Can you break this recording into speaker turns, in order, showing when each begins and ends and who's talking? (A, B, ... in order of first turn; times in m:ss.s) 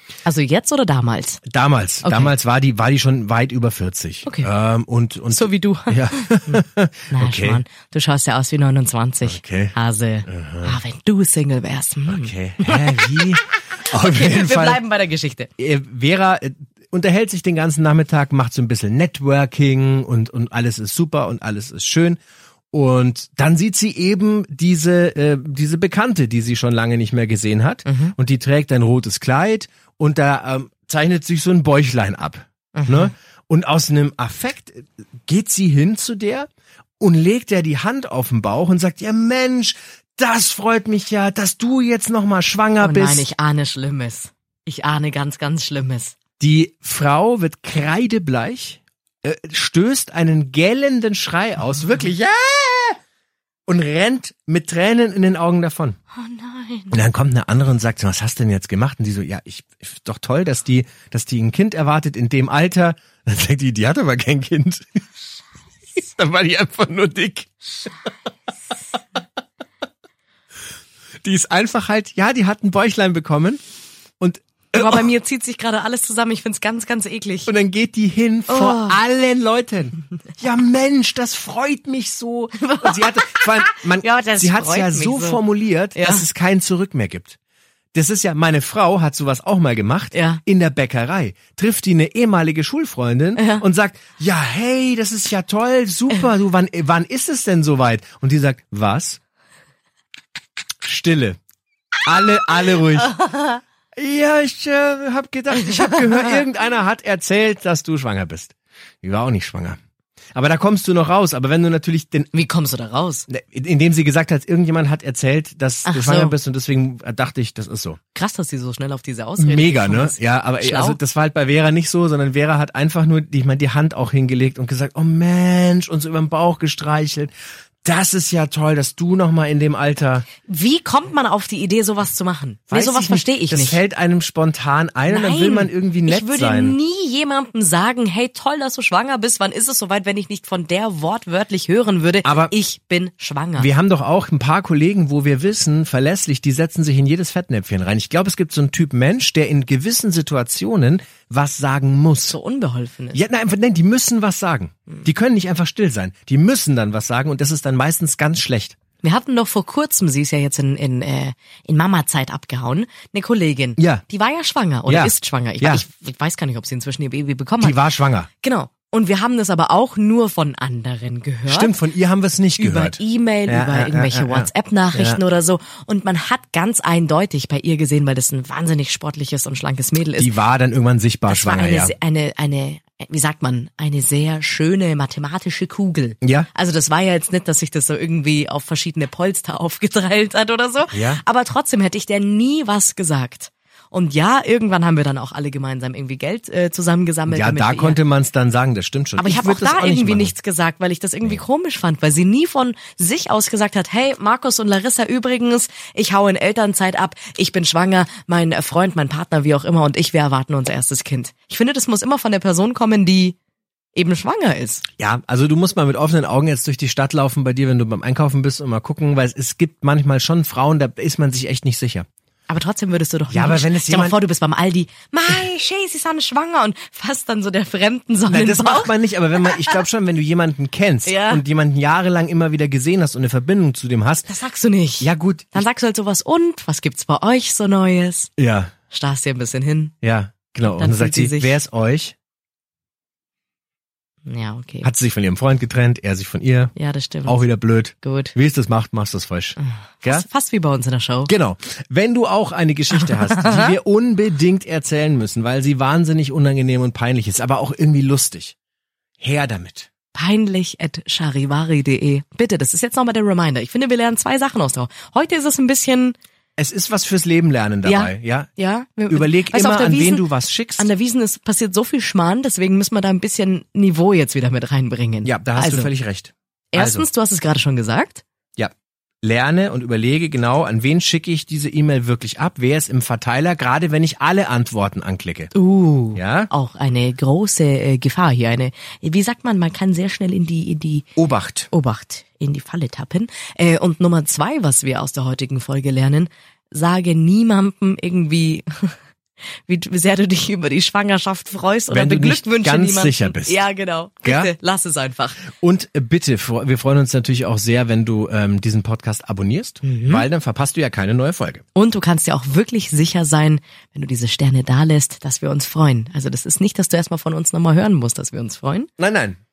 0:00.2-0:01.4 A
0:01.4-0:07.6 B
0:02.0-0:02.3 A
0:04.2-0:04.5 A
0:05.3-0:13.4 A
0:09.2-0:09.7 B
0:10.2-0:10.8 B
0:12.1-0:14.8 B
0:13.9-0:15.5 A
0:15.6-0:22.2 B
0:22.7-0:36.5 B
0:27.9-0:28.1 A
0:32.7-0:33.1 A
0:37.0-0:43.2 B
0:42.8-0:46.1 A
0:46.4-0:53.0 B
0:53.7-0:56.0 B
0:56.2-0:57.0 A
0:56.9-1:05.0 B
1:06.0-1:07.5 B
1:11.2-1:13.6 B
1:14.2-1:15.1 B
1:14.7-1:17.5 A
1:17.5-1:27.4 B
1:18.5-1:19.0 A
1:22.6-1:25.4 A
1:25.9-1:26.2 A
1:27.9-1:39.2 B
1:30.1-1:30.4 A
1:33.4-1:33.6 A
1:40.8-1:41.4 B
1:42.0-1:43.2 B
1:43.9-1:49.8 B
1:50.3-1:52.3 B
1:52.3-1:53.3 A
1:53.3-1:58.0 B
1:55.8-1:56.4 A
1:58.1-2:01.0 A
1:59.4-2:07.3 B
2:07.8-2:10.2 B
2:10.4-2:13.8 A
2:12.7-2:16.8 B
2:15.1-2:23.7 A
2:22.2-2:22.5 B
2:23.6-2:32.4 B
2:32.3-2:33.2 A
2:33.1-2:38.8 B
2:39.0-2:47.8 A
2:43.8-2:44.0 B
2:44.8-2:45.8 B
2:47.6-2:48.3 B
2:48.4-2:51.8 A
2:51.5-2:55.2 B
2:52.6-3:00.3 A
3:00.2-3:01.9 B
3:01.3-3:18.0 A
3:06.2-3:06.5 B
3:10.9-3:11.2 B
3:17.3-3:20.3 B
3:19.2-3:33.4 A
3:33.9-3:34.8 A
3:35.0-3:42.1 B
3:42.5-3:49.8 A
3:43.3-3:44.2 B
3:48.3-3:54.3 B
3:51.0-3:51.4 A
3:54.2-3:58.3 A
3:55.0-3:55.6 B
3:58.4-3:58.7 B
3:58.9-3:59.9 A
4:00.0-4:02.1 B
4:00.6-4:01.6 A
4:04.2-4:04.9 A
4:04.8-4:06.7 B
4:06.7-4:07.4 A
4:07.2-4:10.2 B
4:08.0-4:08.4 A
4:09.6-4:11.3 A
4:11.3-4:18.5 B
4:13.0-4:13.7 A
4:19.2-4:19.9 B
4:20.1-4:26.2 A
4:26.6-4:28.5 B
4:27.8-4:30.2 A
4:29.1-4:30.9 B
4:30.8-4:35.9 A
4:35.2-4:37.0 B
4:36.7-4:38.2 A
4:39.2-4:45.5 B
4:45.5-4:51.1 A
4:46.1-4:46.5 B
4:51.2-4:51.7 B
4:51.7-4:59.0 A
4:59.6-5:05.5 A
5:01.9-5:03.6 B
5:04.2-5:04.5 B
5:05.6-5:11.6 B
5:09.8-5:10.3 A
5:11.7-5:18.9 A
5:19.0-5:19.4 B